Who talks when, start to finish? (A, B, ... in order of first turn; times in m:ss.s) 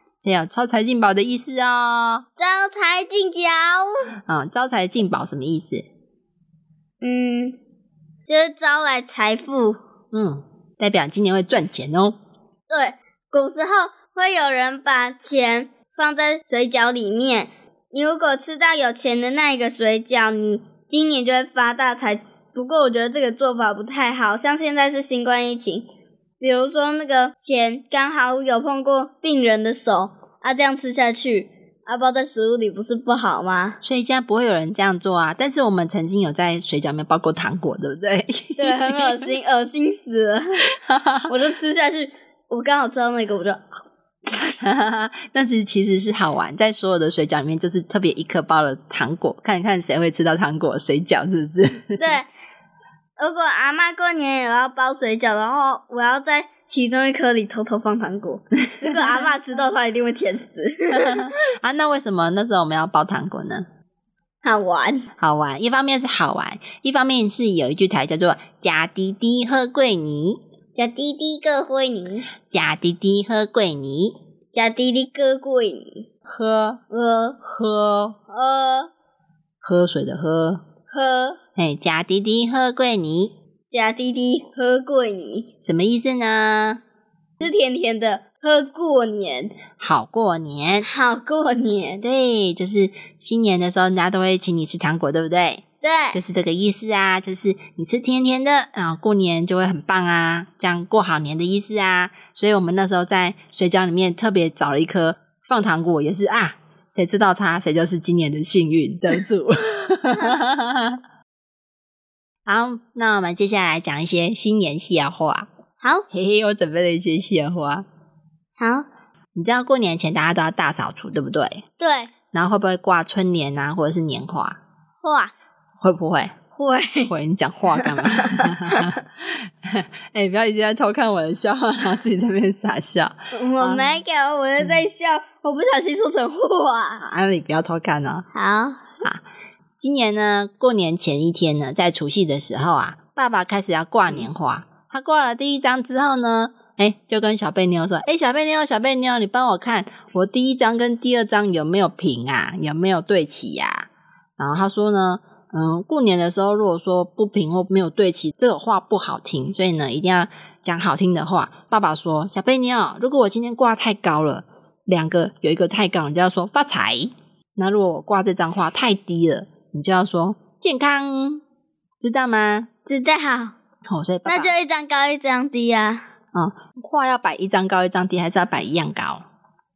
0:00.2-0:02.3 A
0:02.4-0:03.9 B
0:04.3-0:05.9 A
0:07.0-0:07.6 B
0:08.3-0:09.8 B
0:10.1-0:12.2 A
0:12.7-0:25.9 B
0:26.4-0:33.8 B
0:33.8-0:39.3 A
0:38.6-0:40.7 B
0:40.8-0:41.3 A
0:41.3-0:43.8 B
0:44.3-0:52.1 A
0:52.0-0:52.3 B
0:53.2-1:01.4 B
1:01.0-1:03.7 A
1:04.4-1:05.1 B
1:05.2-1:10.4 A
1:10.8-1:12.3 B
1:12.5-1:14.2 A
1:14.5-1:16.1 B
1:16.3-1:16.8 A
1:16.9-1:17.4 B
1:17.4-1:18.2 A
1:18.3-1:18.9 B
1:19.6-1:20.6 A
1:20.9-1:21.4 B
1:21.6-1:23.3 A
1:23.7-1:25.5 B
1:25.6-1:26.8 A
1:27.4-1:29.5 B
1:29.8-1:30.9 A
1:30.8-1:32.0 B
1:32.0-1:51.0 A
1:35.8-1:36.2 B
1:52.5-1:55.5 A
1:56.1-1:57.8 A
1:58.6-1:58.9 B
1:59.4-2:01.6 A
2:01.8-2:02.1 B
2:02.3-2:04.6 A
2:05.0-2:05.3 B
2:05.8-2:06.4 A
2:06.6-2:07.1 B
2:07.1-2:13.9 A
2:07.8-2:08.9 B
2:13.3-2:17.0 B
2:17.0-2:18.3 A
2:18.3-2:19.0 B
2:19.8-2:51.4 A
2:52.0-2:52.7 A
2:52.9-2:53.6 B
2:53.9-2:54.5 A
2:54.3-2:56.1 B
2:56.3-2:59.2 A